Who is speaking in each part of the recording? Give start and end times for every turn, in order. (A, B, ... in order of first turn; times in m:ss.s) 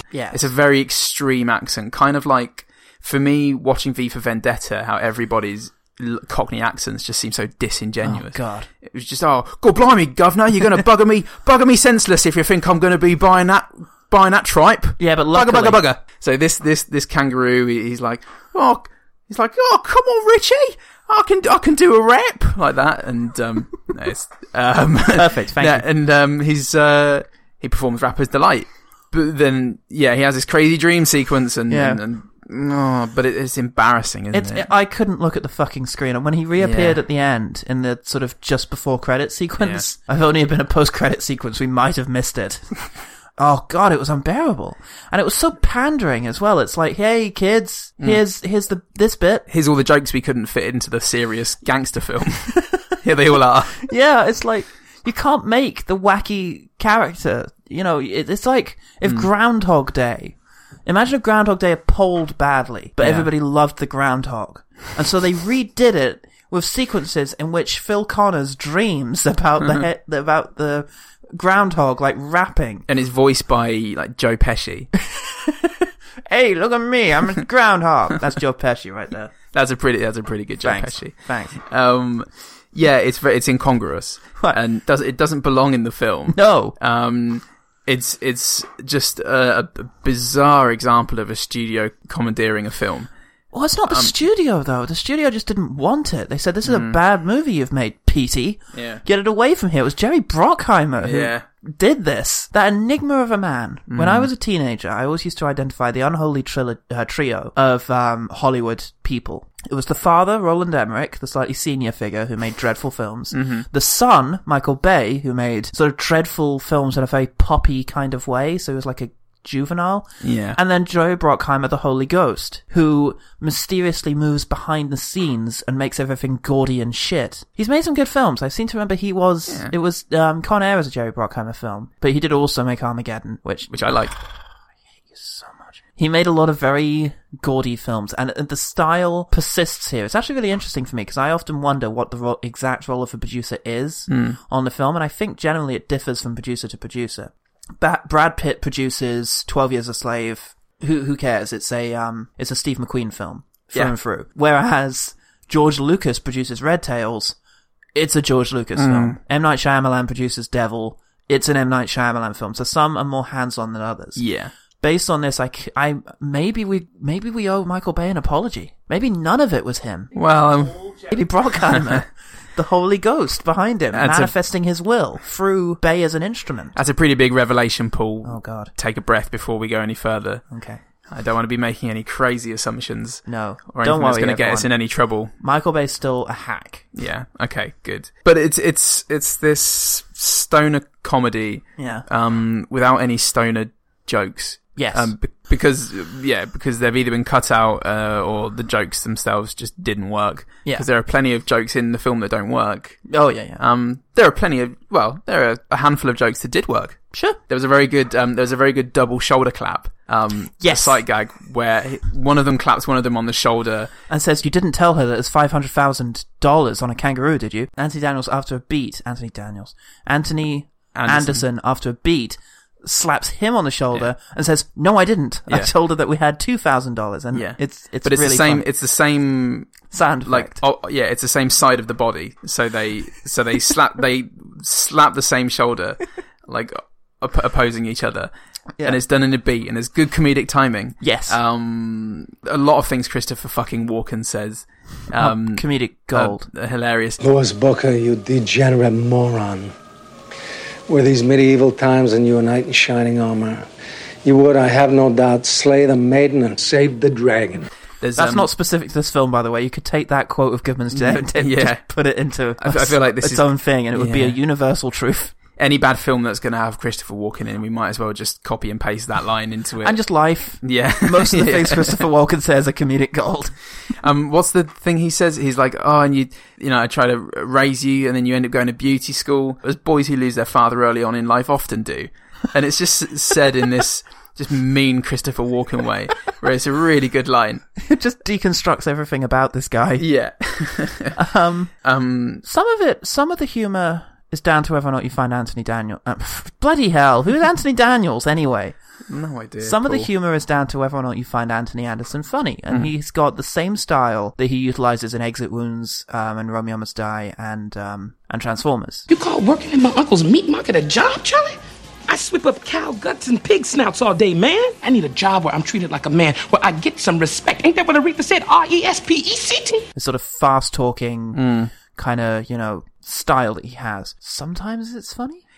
0:00.1-0:00.5 A
0:00.3-0:34.7 B
0:08.0-0:08.7 A
0:15.0-0:15.8 A
0:25.1-0:25.8 A
0:31.7-0:32.0 A
0:34.3-0:42.7 A
0:36.6-0:37.0 B
0:39.6-0:39.8 B
0:43.4-0:49.5 A
0:49.5-0:53.8 B
0:53.8-1:12.8 A
1:03.0-1:03.3 B
1:12.9-1:14.9 B
1:15.1-1:19.3 A
1:19.5-1:33.1 B
1:20.6-1:21.6 A
1:26.3-1:26.8 A
1:33.5-2:14.4 A
1:33.9-1:34.1 B
1:36.6-1:37.0 B
1:38.7-1:39.0 B
1:41.0-1:41.4 B
1:43.9-1:44.3 B
1:53.3-1:53.7 B
2:00.2-2:00.6 B
2:09.5-2:09.7 B
2:13.7-2:14.1 B
2:15.1-2:37.4 A
2:24.1-2:24.4 B
2:37.9-2:44.2 A
2:38.8-2:39.2 B
2:44.2-2:44.5 B
2:44.8-2:50.1 A
2:50.1-2:50.9 B
2:50.8-2:56.8 A
2:51.7-2:52.0 B
2:53.9-2:54.3 B
2:56.7-3:00.4 B
2:58.2-2:58.7 A
3:00.5-3:00.8 A
3:01.1-3:05.3 B
3:03.2-3:04.7 A
3:05.4-3:06.9 A
3:06.9-3:23.0 B
3:11.8-3:12.0 A
3:14.8-3:15.1 A
3:23.1-3:23.6 A
3:23.6-3:33.9 B
3:27.1-3:27.4 A
3:30.6-3:31.0 A
3:34.1-3:48.6 A
3:40.9-3:41.4 B
3:47.3-3:58.3 B
3:49.9-3:50.6 A
3:58.8-4:07.2 B
4:01.0-4:01.4 A
4:05.2-4:06.4 A
4:07.2-4:09.7 C
4:10.9-4:13.7 C
4:14.2-4:17.7 C
4:18.0-4:18.5 B
4:18.2-4:25.3 A
4:20.9-4:21.8 B
4:22.6-4:24.4 B
4:25.6-4:30.0 B
4:29.8-4:33.5 A
4:30.6-4:32.0 B
4:34.0-4:47.6 B
4:47.8-4:50.1 A
4:50.0-4:51.2 B
4:51.1-4:51.7 A
4:51.8-4:52.4 B
4:52.4-4:58.8 A
4:59.1-5:00.1 B
4:59.6-5:09.1 A
5:09.1-5:19.8 D
5:19.9-5:25.4 A
5:21.3-5:21.7 B